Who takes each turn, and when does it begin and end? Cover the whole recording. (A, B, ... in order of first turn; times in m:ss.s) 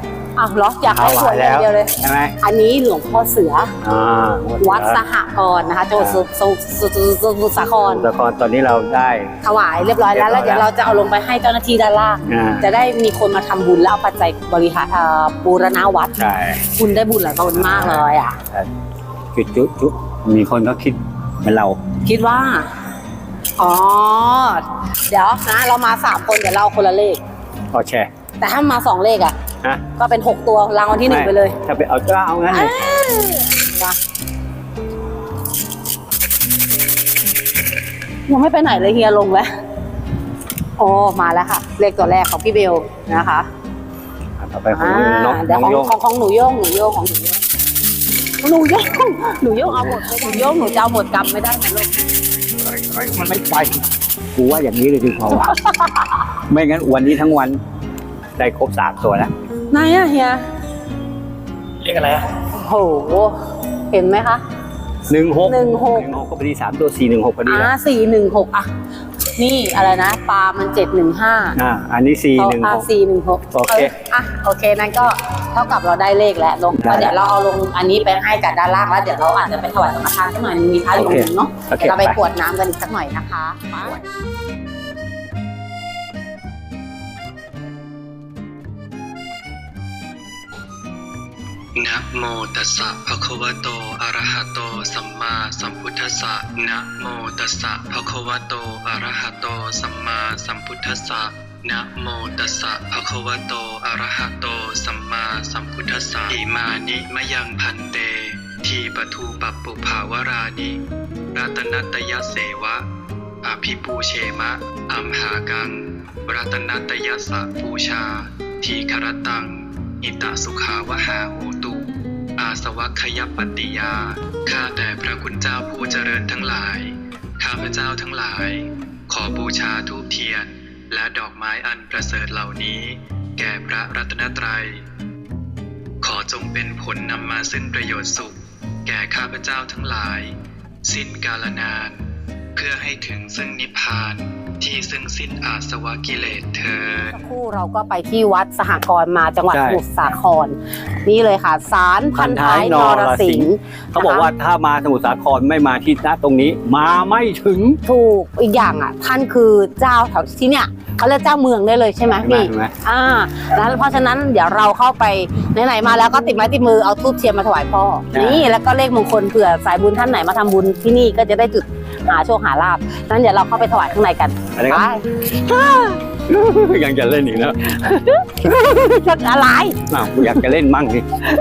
0:00.4-0:03.7 A
0:00.9-0:02.3 B
0:03.8-0:05.0 B
0:04.6-0:08.1 A
0:06.0-0:06.2 B
0:07.8-0:09.3 B
0:09.4-0:16.2 A
0:10.1-0:10.7 B
0:12.3-0:12.7 B
0:16.2-0:16.7 B
0:16.7-0:18.4 A
0:17.5-0:18.7 B
0:19.3-0:21.8 B
0:22.0-0:22.7 A
0:23.6-0:27.2 A
0:27.7-0:28.1 B
0:28.4-0:29.4 A
0:30.0-0:31.6 A
0:31.0-0:32.8 B
0:32.5-0:34.0 A
0:38.3-0:39.5 A
0:40.8-0:43.5 A
0:44.4-0:45.9 B
0:44.7-0:47.4 A
0:48.4-0:51.9 A
0:49.7-0:50.2 B
0:52.6-0:55.6 B
0:55.6-0:56.0 A
0:56.3-0:57.6 B
0:58.4-0:59.3 B
0:59.7-1:00.4 A
1:01.8-1:02.2 B
1:02.3-1:04.4 A
1:05.1-1:07.7 B
1:05.4-1:06.1 A
1:07.5-1:08.7 A
1:09.4-1:11.6 A
1:11.6-1:12.9 B
1:12.4-1:24.0 A
1:13.5-1:13.9 B
1:16.8-1:17.2 B
1:21.0-1:22.2 B
1:31.8-1:50.8 C
1:51.3-1:52.9 C
1:53.4-2:14.8 C
2:16.0-2:22.0 C
2:22.6-2:27.2 C
2:27.1-2:34.3 A
2:29.5-2:29.8 B
2:32.1-2:37.8 B
2:37.9-2:55.0 A
2:42.2-2:42.7 B
2:48.1-2:48.4 B
2:54.6-2:54.9 B
2:55.4-2:58.9 B
2:58.0-3:00.4 A
2:59.9-3:01.2 B